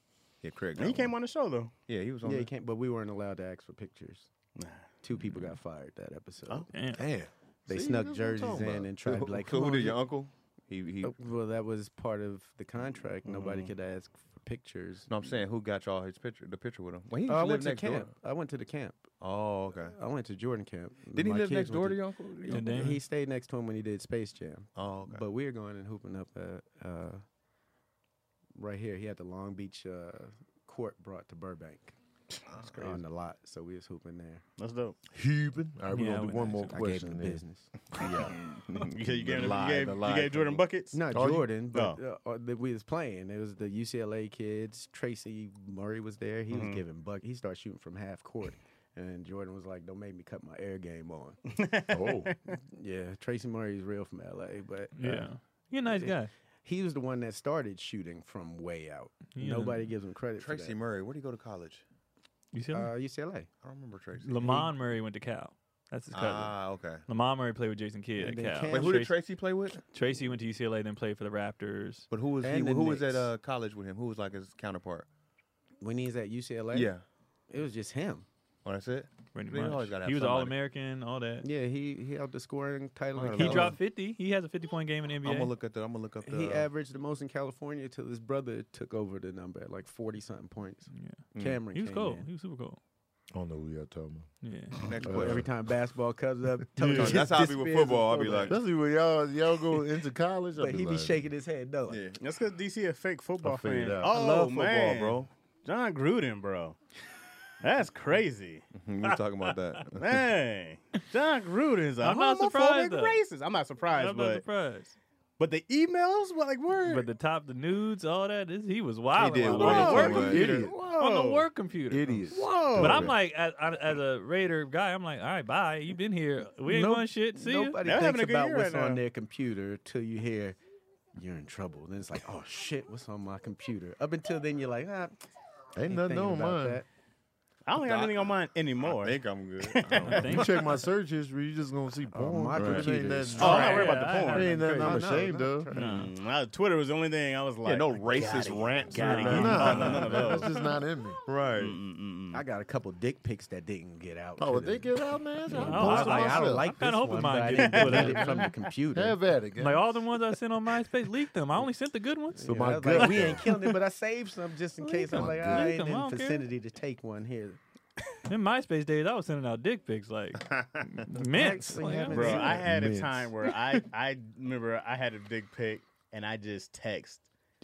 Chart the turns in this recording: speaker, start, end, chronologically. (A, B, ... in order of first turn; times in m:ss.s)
0:00.4-0:01.1 A
0:00.8-0:01.7 B
0:01.9-0:02.5 A
0:02.2-0:04.3 C
0:04.6-0:04.8 B
0:05.0-0:06.7 C
0:06.7-0:07.1 D
0:06.9-0:08.9 E
0:07.7-0:10.0 C
0:09.0-0:11.1 A
0:11.0-0:15.1 C
0:13.3-0:13.7 A
0:15.1-0:18.1 A
0:17.2-0:19.0 C
0:19.2-0:20.0 A
0:19.7-0:27.2 C
0:21.1-0:23.0 A
0:22.5-0:23.0 D
0:24.8-0:25.2 A
0:28.6-0:31.9 C
0:32.5-0:33.0 A
0:32.7-0:34.4 C
0:34.6-0:35.0 B
0:35.1-0:38.4 E
0:35.9-0:36.8 D
0:36.7-0:37.7 C
0:38.5-0:40.6 A
0:38.8-0:41.0 B
0:40.9-0:51.4 C
0:41.1-0:41.5 E
0:41.7-0:42.0 B
0:46.5-0:46.8 B
0:51.5-0:52.6 B
0:51.9-0:52.3 E
0:52.6-0:55.2 C
0:55.0-0:56.3 D
0:55.8-1:00.8 C
0:59.3-0:59.9 D
1:00.4-1:01.8 A
1:02.5-1:02.9 D
1:02.7-1:03.5 C
1:03.6-1:04.6 A
1:04.2-1:09.2 D
1:04.4-1:04.7 C
1:06.1-1:07.0 A
1:08.2-1:09.1 C
1:08.7-1:09.8 A
1:09.9-1:12.1 D
1:12.1-1:15.0 A
1:12.4-1:13.3 C
1:15.8-1:16.9 C
1:16.7-1:17.0 A
1:17.5-1:18.2 C
1:18.6-1:20.6 A
1:19.3-1:21.4 D
1:21.4-1:23.8 C
1:23.1-1:23.8 A
1:23.3-1:25.5 D
1:25.2-1:26.7 A
1:26.2-1:32.3 C
1:30.9-1:32.8 D
1:31.3-1:31.6 A
1:33.3-1:34.3 E
1:34.4-1:34.8 D
1:34.8-1:35.4 A
1:35.0-1:38.6 C
1:35.0-1:35.5 E
1:36.8-1:37.2 E
1:36.8-1:37.2 D
1:36.8-1:38.6 A
1:38.5-1:41.2 E
1:40.6-1:42.0 C
1:41.9-1:42.2 A
1:42.2-1:46.8 B
1:43.4-1:44.1 E
1:44.1-1:45.3 A
1:47.6-1:48.6 B
1:48.7-1:50.2 A
1:49.0-1:49.6 D
1:50.0-1:54.4 B
1:52.0-1:53.2 D
1:53.9-1:54.9 D
1:55.4-1:57.1 B
1:56.8-2:07.8 D
1:59.1-2:00.6 A
1:59.6-2:00.8 E
1:59.6-2:01.5 B
2:01.9-2:03.1 E
2:02.3-2:03.1 B
2:02.8-2:03.1 A
2:06.6-2:10.6 C
2:07.8-2:09.0 B
2:11.2-2:15.1 C
2:15.8-2:16.8 E
2:15.9-2:16.8 C
2:17.6-2:20.4 B
2:17.8-2:20.6 A
2:20.0-2:20.6 D
2:20.2-2:25.7 E
2:22.1-2:24.1 C
2:22.6-2:23.7 A
2:23.4-2:24.6 B
2:23.4-2:24.8 D
2:24.7-2:26.0 C
2:25.7-2:30.5 B
2:25.8-2:26.1 D
2:27.6-2:30.5 A
2:28.9-2:30.4 D
2:29.1-2:31.2 E
2:31.2-2:31.8 A
2:31.6-2:32.4 B
2:32.3-2:35.0 C
2:34.4-2:36.7 E
2:35.5-2:39.2 C
2:35.5-2:38.5 D
2:37.6-2:38.1 B
2:37.9-2:38.3 E
2:38.9-2:40.0 E
2:39.6-2:43.5 D
2:42.3-2:47.6 C
2:42.4-2:43.5 E
2:44.8-2:46.4 D
2:45.1-2:45.7 E
2:48.3-2:52.5 D
2:50.5-2:50.8 A
2:51.2-2:52.6 C
2:52.1-2:57.2 B
2:52.3-2:53.3 E